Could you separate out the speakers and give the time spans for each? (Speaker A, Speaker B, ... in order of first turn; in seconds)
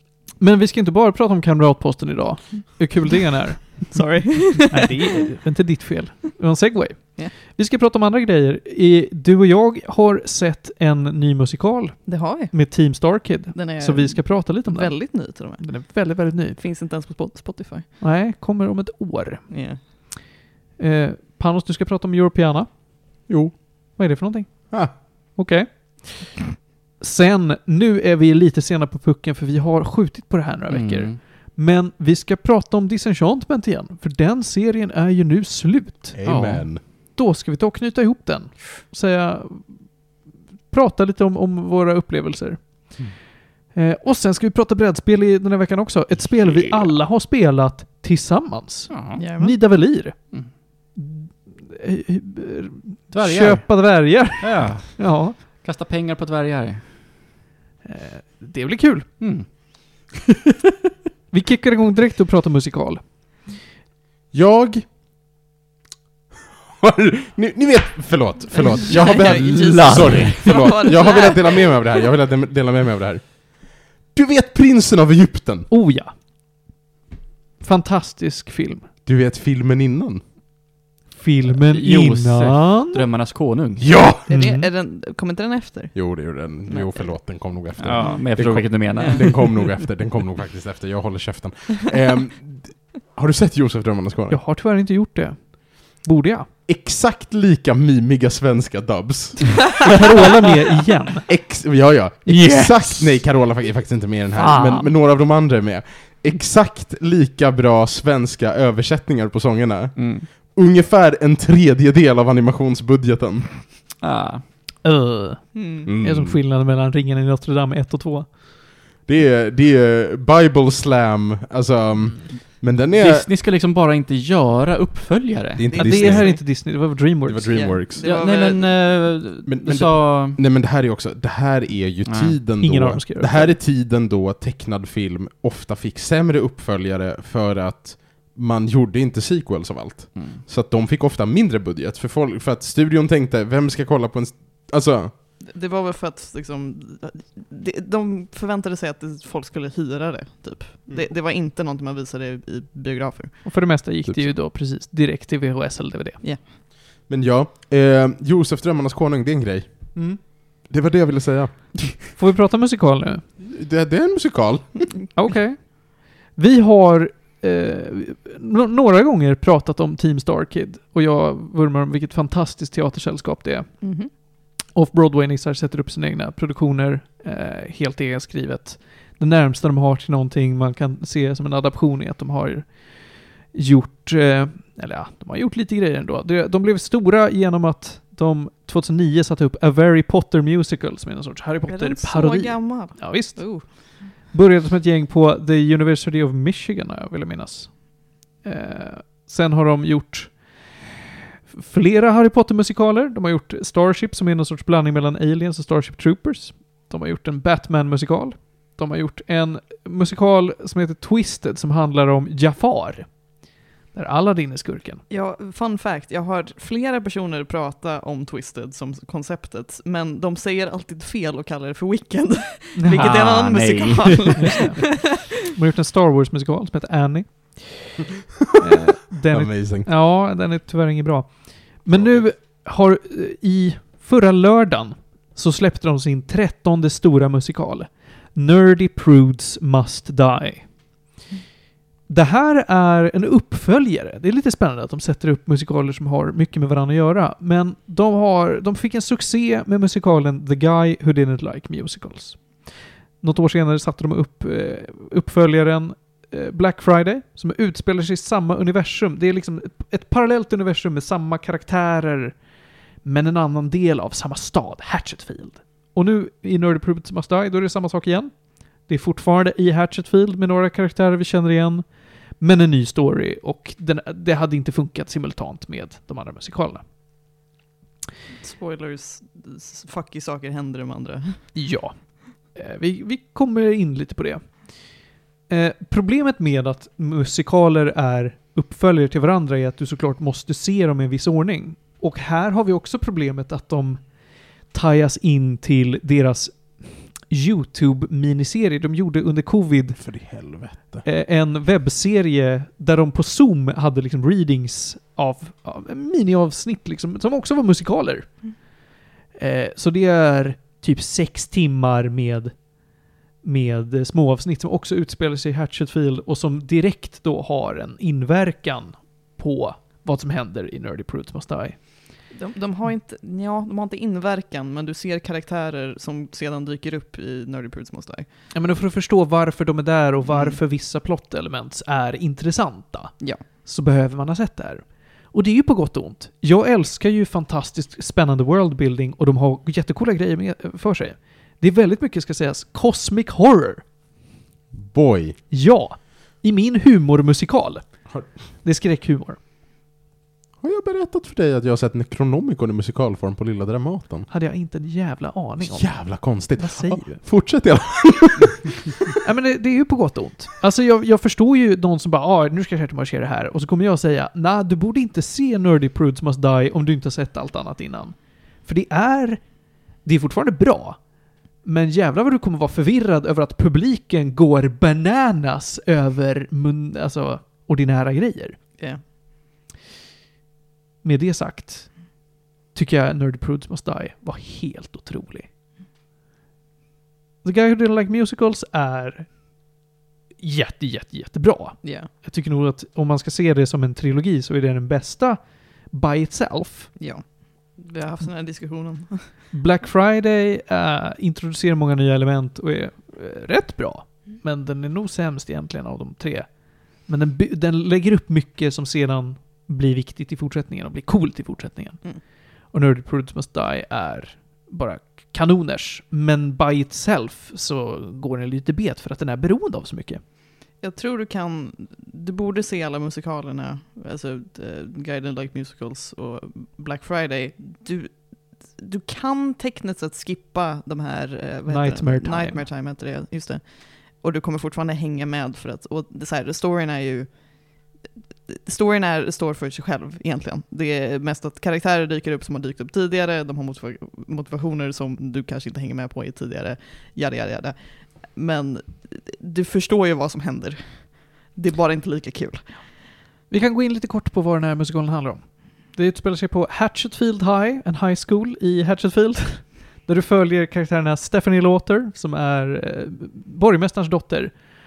Speaker A: 0.4-16.6, 18.0-19.4, 20.8-22.7, 23.9-26.5, 27.0-36.2, 37.1-39.7, 40.7-42.9, 43.7-50.1, 50.9-55.4, 57.8-59.1, 61.3-63.0, 69.6-70.2, 75.7-76.1, 77.6-78.9, 81.1-83.0, 84.3-84.7, 94.3-96.5, 99.8-101.3, 102.2-103.2, 104.4-104.9, 114.8-118.4, 125.8-127.7, 132.6-133.5, 153.4-156.2, 159.9-160.2, 162.1-163.2, 165.1-173.8, 174.7-182.8, 183.5-197.8, 198.4-200.6, 201.5-213.1, 213.9-215.0, 222.8-223.4, 224.3-228.0, 228.6-240.7, 242.1-252.7, 253.2-262.4, 263.0-268.3, 268.9-271.8, 272.4-276.8, 281.5-281.9, 282.5-284.4, 285.5-294.0, 294.7-300.1, 301.0-308.5, 309.4-312.6, 313.4-321.8, 328.5-343.8, 345.5-349.4, 354.3-357.2, 359.2-369.5, 370.0-371.0, 371.6-378.6, 381.0-382.0, 382.7-385.5, 387.4-389.3, 390.4-395.4, 395.9-396.9, 399.5-406.5, 407.0-420.2, 431.7-432.6, 453.5-464.6
Speaker B: 3.9-5.0, 12.1-12.5, 13.5-15.6, 16.6-17.9, 19.5-19.8, 49.1-49.5, 68.5-71.7, 84.3-86.0, 86.7-87.1, 88.0-88.2, 115.5-115.9, 125.7-126.4, 127.5-128.7, 145.4-153.4, 173.8-174.1, 191.7-193.7, 215.1-225.3, 278.4-281.4, 322.3-328.2, 330.3-330.6, 391.8-392.1, 397.0-397.2, 397.7-399.3, 420.8-437.4, 438.5-452.7
Speaker C: 23.3-23.6, 36.1-36.8, 64.3-64.9, 66.8-75.7, 79.0-80.2, 83.8-84.3, 85.9-94.4, 96.7-99.9, 101.3-113.5, 115.8-116.4, 119.0-123.3, 125.6-126.4, 127.2-128.0, 129.4-145.1, 157.1-161.8, 163.4-164.9, 229.3-229.9, 231.9-232.2, 300.0-301.0, 344.7-345.4, 350.6-354.3, 355.6-358.8
Speaker D: 30.7-31.2, 36.2-36.7, 48.9-49.2, 53.1-56.8, 59.2-60.1, 69.8-70.6, 81.5-83.9, 87.8-89.8, 110.0-110.3, 114.0-114.4, 122.9-126.2, 128.0-130.4, 132.1-132.3, 222.9-224.7